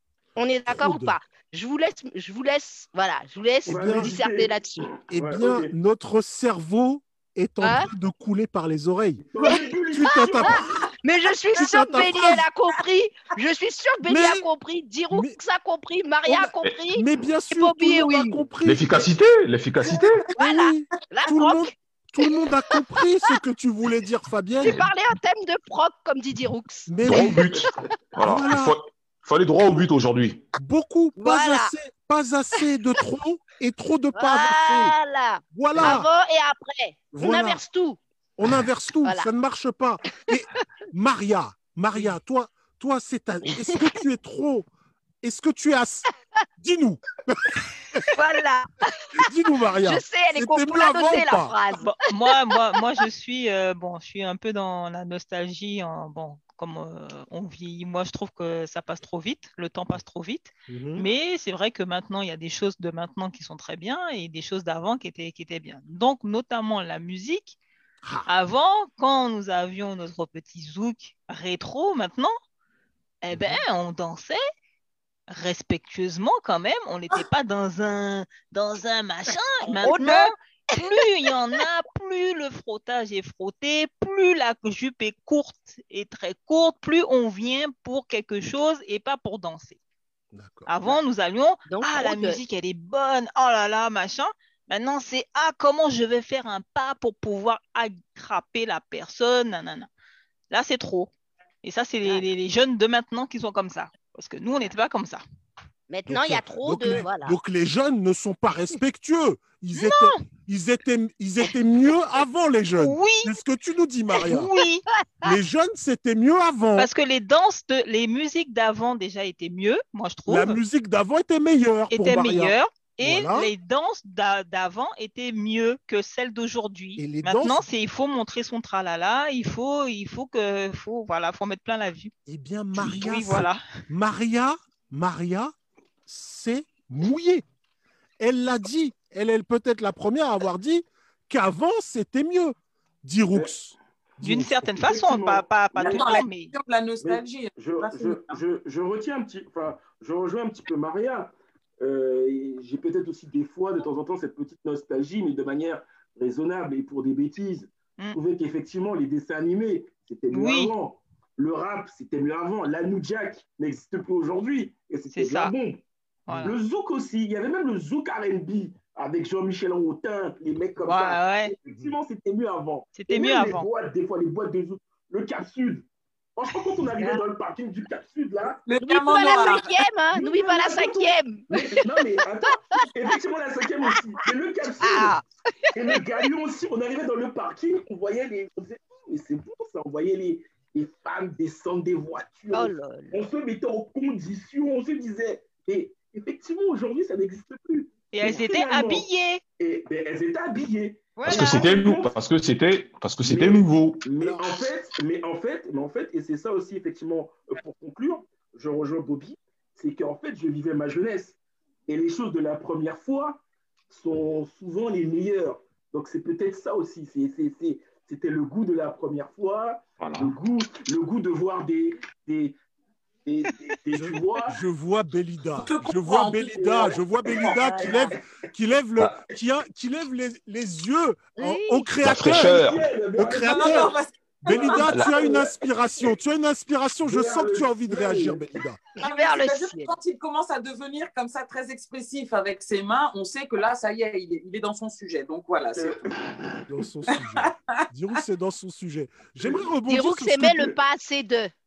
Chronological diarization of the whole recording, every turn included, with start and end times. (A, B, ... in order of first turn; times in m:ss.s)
0:00.4-0:04.9 A
0:00.7-0:01.2 B
0:03.7-0:05.7 C
0:03.7-0:04.1 B
0:05.1-0:10.8 B
0:07.6-0:07.9 A
0:09.3-0:10.7 C
0:09.4-0:18.4 A
0:11.5-0:12.4 B
0:14.0-0:14.4 B
0:15.1-0:15.4 B
0:16.2-0:19.1 B
0:18.6-0:20.2 D
0:19.9-0:21.7 A
0:20.3-0:24.8 B
0:22.2-0:23.3 A
0:24.6-0:27.8 A
0:26.9-0:27.6 B
0:27.0-0:30.4 D
0:28.2-0:28.8 B
0:30.6-0:34.9 B
0:31.2-0:31.7 A
0:34.1-0:38.0 A
0:35.5-0:36.1 B
0:37.1-0:37.6 B
0:38.4-0:44.7 B
0:43.6-0:43.9 A
0:45.2-0:48.1 B
0:48.0-0:49.3 A
0:49.2-0:51.5 B
0:49.8-0:51.9 A
0:51.8-1:07.6 E
0:52.4-0:52.8 A
1:00.7-1:01.1 B
1:08.2-1:12.3 E
1:13.2-1:14.4 E
1:13.3-1:13.6 B
1:15.3-1:29.8 E
1:19.3-1:21.6 A
1:30.3-1:30.7 B
1:30.7-1:39.9 E
1:31.6-1:32.4 A
1:40.5-1:41.1 E
1:41.6-1:45.2 E
1:45.9-1:47.4 A
1:46.1-1:54.5 B
1:49.7-1:50.2 E
1:52.8-1:53.3 E
1:54.2-1:54.8 E
1:55.2-1:56.9 B
1:56.8-2:00.6 E
2:00.3-2:03.5 B
2:01.9-2:12.1 E
2:07.0-2:07.6 B
2:12.3-2:15.5 B
2:12.8-2:13.6 E
2:16.1-2:17.4 B
2:18.2-2:24.7 B
2:24.2-2:26.5 E
2:24.8-2:26.2 C
2:25.8-2:28.4 F
2:27.0-2:58.6 C
2:40.3-2:40.7 E
2:45.1-2:45.5 E
2:46.3-2:46.5 E
2:50.8-2:51.5 E
2:52.9-2:53.7 E
2:56.9-2:57.2 A
2:58.6-2:59.6 F
2:58.8-3:02.8 A
3:00.1-3:05.2 C
3:04.8-3:06.2 A
3:05.7-3:19.1 C
3:12.5-3:13.3 A
3:18.1-3:19.4 E
3:19.6-3:22.1 C
3:21.2-3:21.7 E
3:21.2-3:24.0 D
3:23.2-3:42.6 C
3:24.2-3:24.6 B
3:40.0-3:40.4 D
3:43.2-3:44.6 C
3:43.9-3:52.6 B
3:45.6-3:46.8 F
3:46.5-3:48.2 C
3:51.4-3:51.9 A
3:52.0-3:52.8 D
3:52.2-3:53.9 C
3:53.1-3:58.8 B
3:53.3-3:54.9 F
3:54.5-3:55.5 C
3:54.9-3:55.1 D
3:57.1-3:58.5 C
3:59.0-4:06.0 F
3:59.0-3:59.9 A
4:05.8-4:06.7 C
4:06.7-4:10.7 B
4:07.2-4:07.8 F
4:09.8-4:11.5 A